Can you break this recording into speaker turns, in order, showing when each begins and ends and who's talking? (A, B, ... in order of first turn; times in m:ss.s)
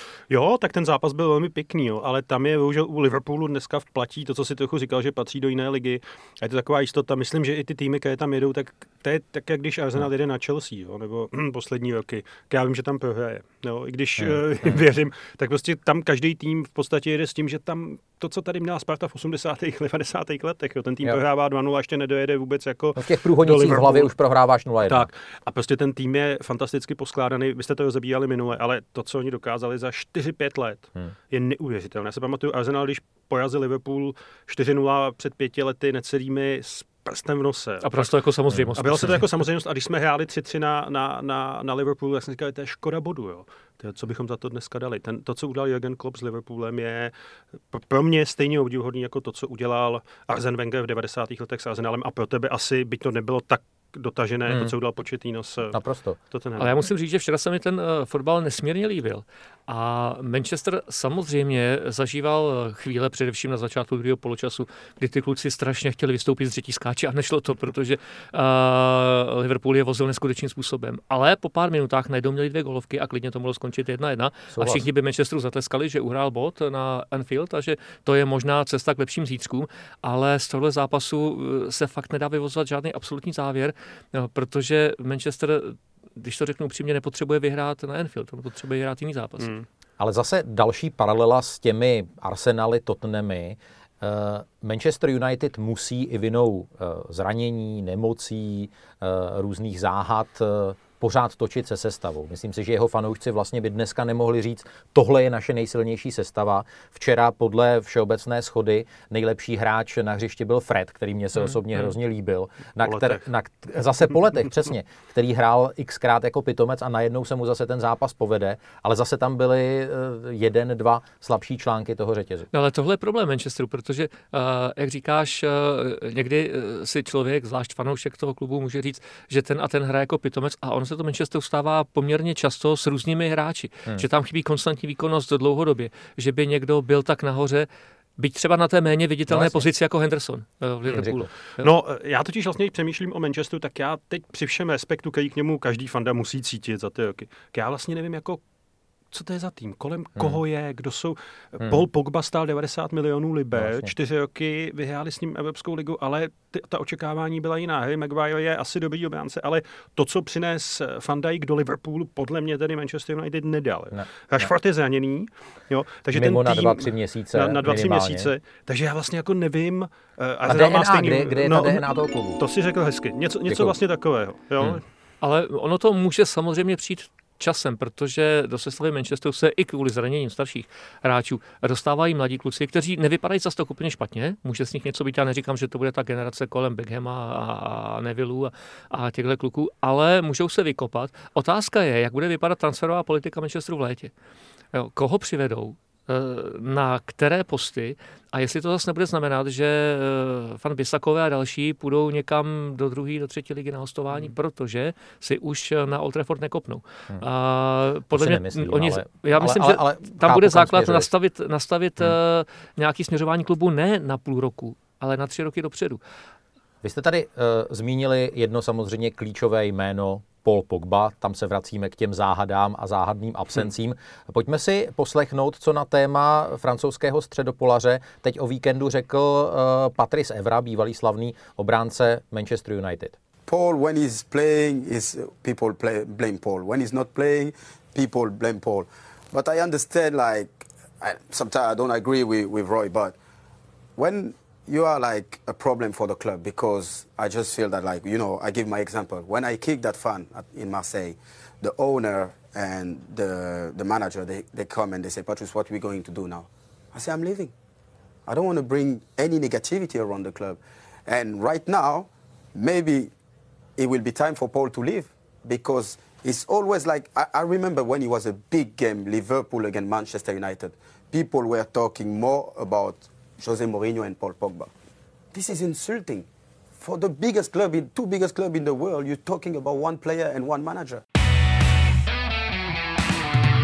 0:00.3-0:24.1 A
0:14.2-0:14.8 B
0:23.0-0:25.1 B
0:24.8-0:38.1 A
0:37.8-0:39.2 C
0:38.5-0:38.8 B
0:38.8-0:47.1 A
0:47.7-0:55.8 A
0:54.5-0:54.7 B
0:55.7-0:56.2 B
0:56.3-0:56.7 A
0:56.6-1:29.5 C
1:14.5-1:14.9 B
1:29.4-1:29.6 A
1:30.0-2:02.5 B
1:52.8-1:53.2 A
2:02.5-2:21.7 C
2:19.3-2:19.6 B
2:20.9-2:21.3 B
2:21.6-2:28.4 A
2:29.1-2:54.8 A
2:33.6-2:33.9 B
2:43.9-2:44.5 B
2:46.1-2:48.3 B
2:50.4-2:52.4 B
2:53.5-2:53.8 B
2:55.2-3:14.1 C
3:14.7-3:36.0 C
3:28.1-3:31.1 B
3:36.8-3:53.1 B
3:53.5-4:03.2 D
4:04.0-4:17.5 D
4:18.3-4:23.1 D
4:23.8-4:34.7 D
4:35.3-4:36.3 D
4:36.8-4:41.0 D